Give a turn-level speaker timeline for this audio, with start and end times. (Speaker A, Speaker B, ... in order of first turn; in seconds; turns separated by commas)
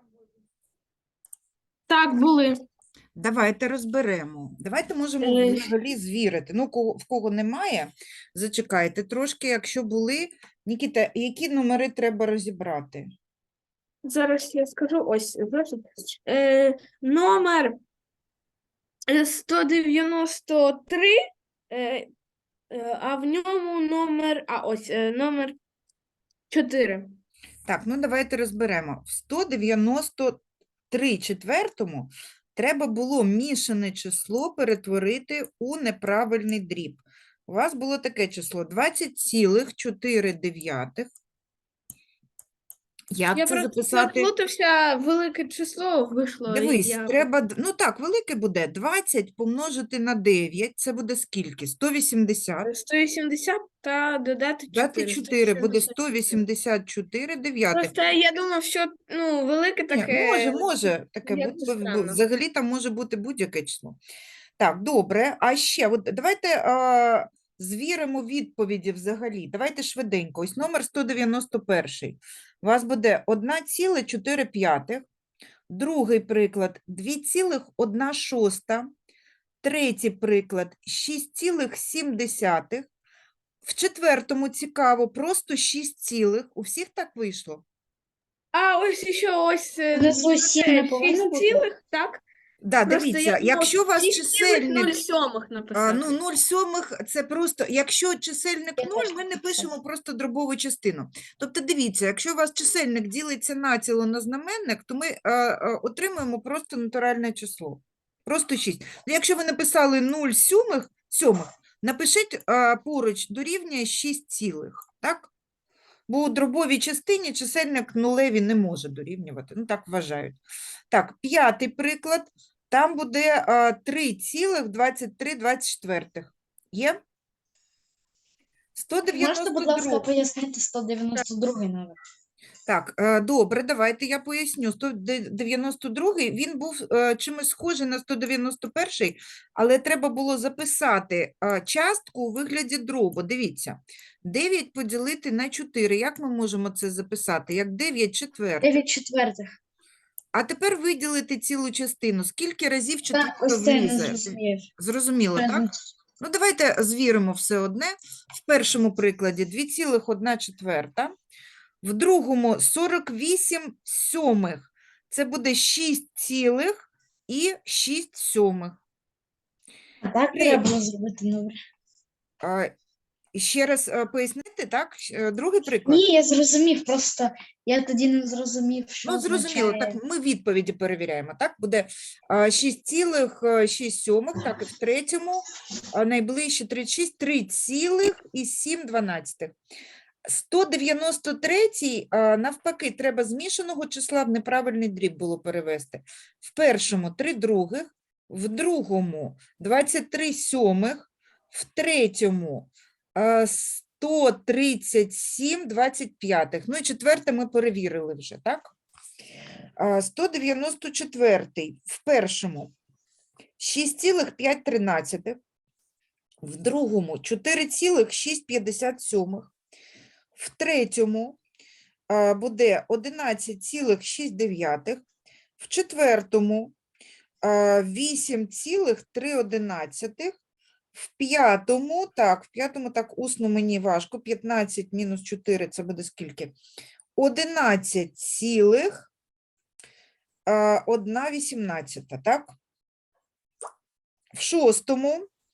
Speaker A: 1.9-2.6, Speaker B: 3.1-13.1, Speaker A: 5.2-5.7, Speaker A: 14.0-17.8, Speaker A: 19.1-21.2, Speaker A: 21.7-22.1, Speaker A: 22.7-25.6, Speaker A: 26.5-27.1, Speaker B: 27.7-41.1, Speaker B: 43.1-44.3, Speaker A: 43.3-47.3, Speaker B: 46.5-52.7, Speaker A: 52.6-56.4, Speaker B: 54.7-57.9, Speaker A: 57.7-62.2, Speaker B: 59.9-64.0, Speaker B: 64.6-75.0, Speaker B: 75.7-78.9, Speaker B: 79.6-82.9, Speaker B: 83.6-87.6, Speaker A: 88.5-92.2, Speaker C: 89.9-91.6, Speaker B: 92.6-95.0, Speaker A: 92.9-96.2, Speaker B: 95.7-115.3, Speaker C: 98.8-99.7, Speaker B: 116.1-120.4, Speaker B: 120.9-127.0, Speaker B: 128.8-130.1, Speaker C: 129.1-132.0, Speaker B: 132.7-148.8, Speaker C: 148.6-149.5, Speaker B: 150.3-155.7, Speaker C: 153.1-154.7, Speaker C: 155.3-155.8, Speaker B: 156.2-161.1, Speaker B: 161.8-168.8, Speaker C: 170.0-171.6, Speaker B: 170.3-170.6, Speaker B: 172.4-172.7, Speaker B: 173.3-176.0, Speaker C: 175.8-180.0, Speaker B: 179.0-189.6, Speaker B: 190.2-208.7, Speaker B: 209.8-212.7, Speaker B: 213.6-215.4, Speaker B: 216.4-219.5, Speaker B: 220.3-221.4, Speaker B: 222.1-225.0, Speaker B: 225.6-226.7, Speaker B: 227.4-230.3, Speaker B: 230.9-236.5, Speaker B: 237.2-239.1, Speaker B: 240.5-242.5, Speaker B: 244.3-245.3